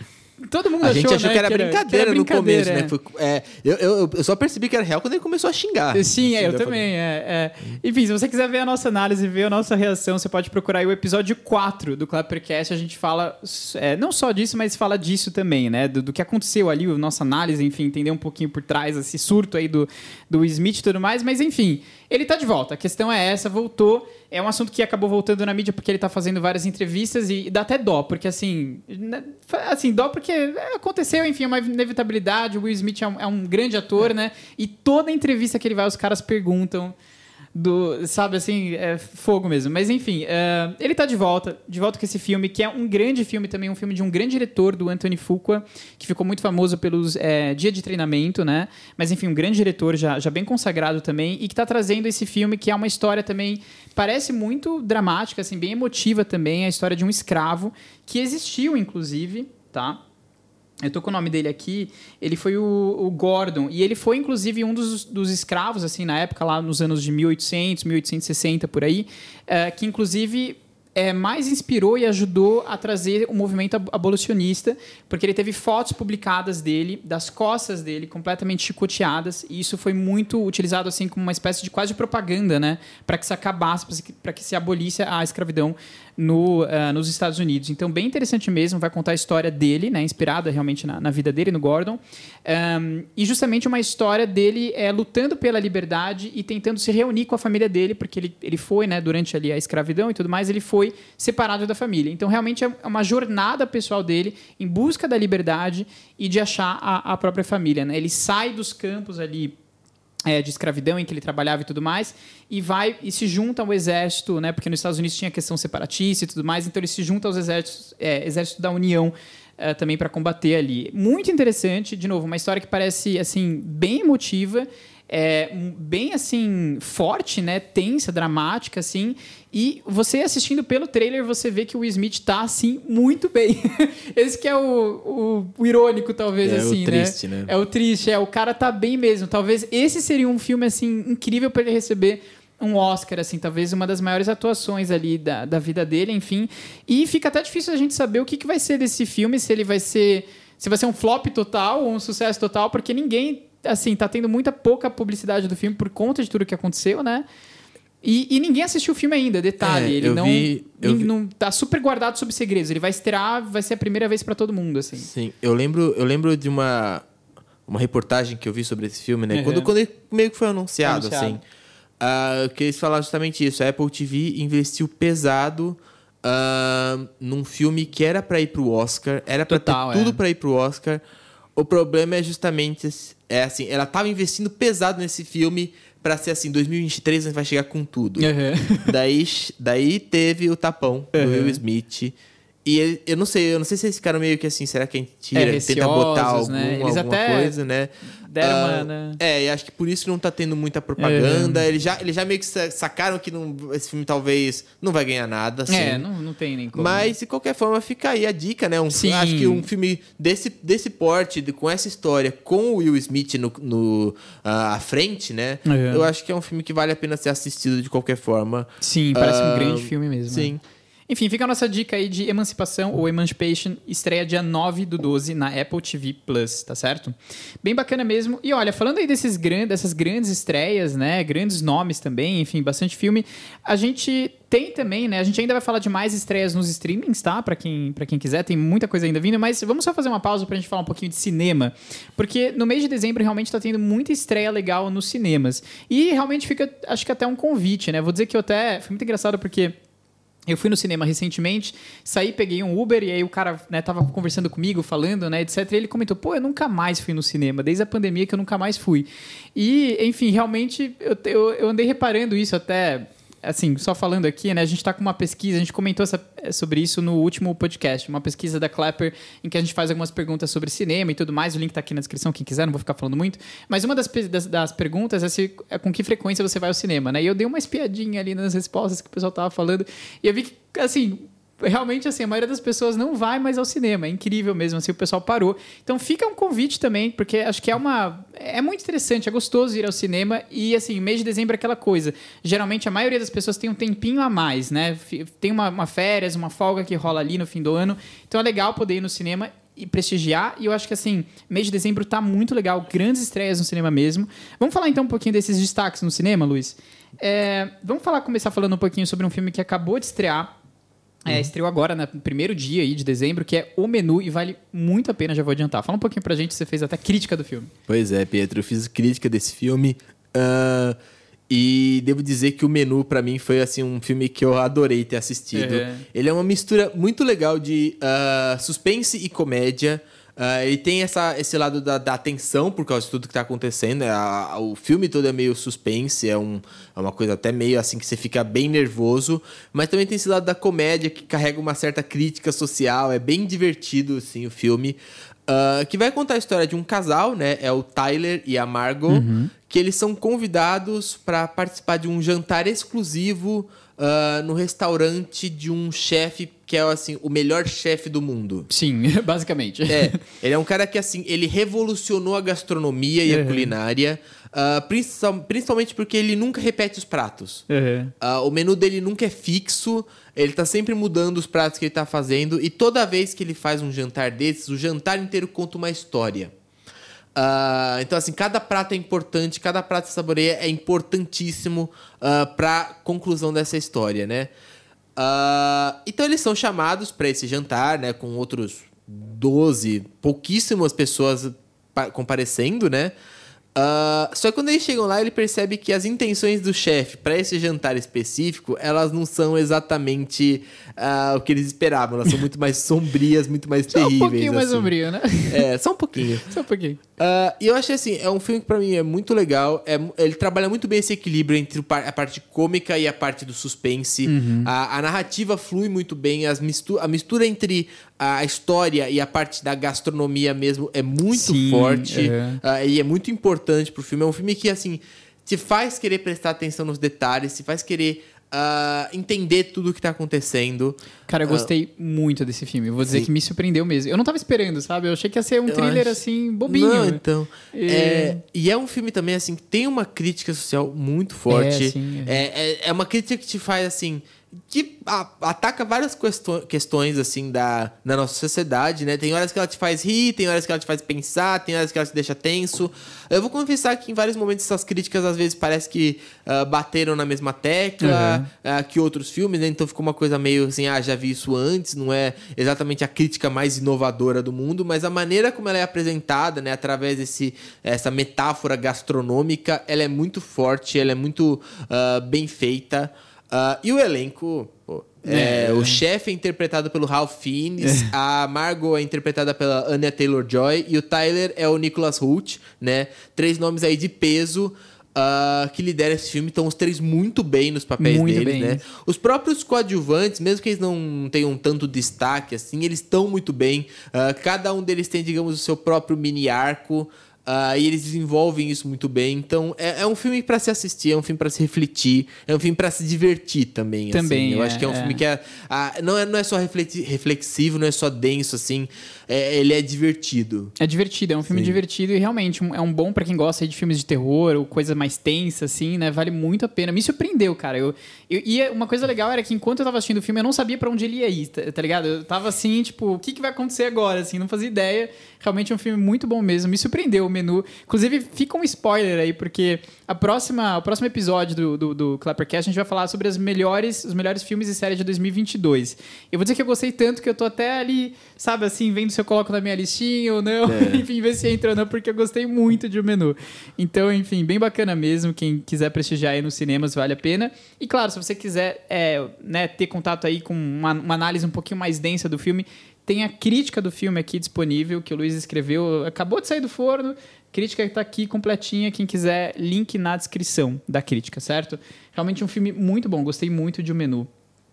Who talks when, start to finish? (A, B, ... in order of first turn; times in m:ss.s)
0:00.4-0:02.9 A
0:00.8-0:06.8 B
0:05.9-0:37.0 A
0:37.6-1:00.0 A
1:00.8-1:49.6 A
1:50.3-2:37.2 A
2:16.4-2:17.5 B
2:38.0-2:45.1 A
2:39.6-2:41.1 B
2:45.0-2:47.0 B
2:47.7-2:51.4 B
2:49.3-2:49.7 A
2:50.8-2:51.4 A
2:52.0-3:01.0 B
2:59.5-3:00.2 A
3:01.6-3:08.3 B
3:08.2-3:08.9 A
3:08.8-3:26.1 B
3:11.1-3:11.6 A
3:15.3-3:17.6 A
3:18.2-3:19.2 A
3:21.0-3:21.6 A
3:25.7-3:27.2 A
3:26.8-3:40.6 B
3:28.9-3:29.7 A
3:35.7-3:36.1 A
3:38.8-3:40.5 A
3:41.1-4:09.8 A
4:10.5-5:10.5 A
5:11.3-5:17.7 A
5:17.9-5:21.0 B
5:21.5-5:58.7 B
5:25.5-5:26.0 A
5:49.1-5:49.5 A
5:58.7-6:00.2 A
5:59.9-6:07.6 B
6:03.3-6:03.7 A
6:07.7-6:08.1 A
6:08.2-6:16.5 B
6:17.4-6:24.5 B
6:25.2-6:33.1 B
6:33.8-6:44.9 B
6:43.9-6:45.6 A
6:45.5-6:46.5 B
6:46.4-6:47.0 A
6:47.2-7:11.7 B
6:54.2-6:54.7 A
7:01.3-7:02.6 A
7:11.3-7:17.2 A
7:15.7-8:30.7 B
7:17.7-7:18.4 A
7:21.5-7:22.4 A
7:38.0-7:38.5 A
7:55.3-7:56.0 A
7:57.8-7:58.1 A
8:08.0-8:08.8 A
8:24.1-8:25.2 A
8:30.8-9:24.3 A
8:31.5-8:31.8 B
9:00.6-9:01.0 B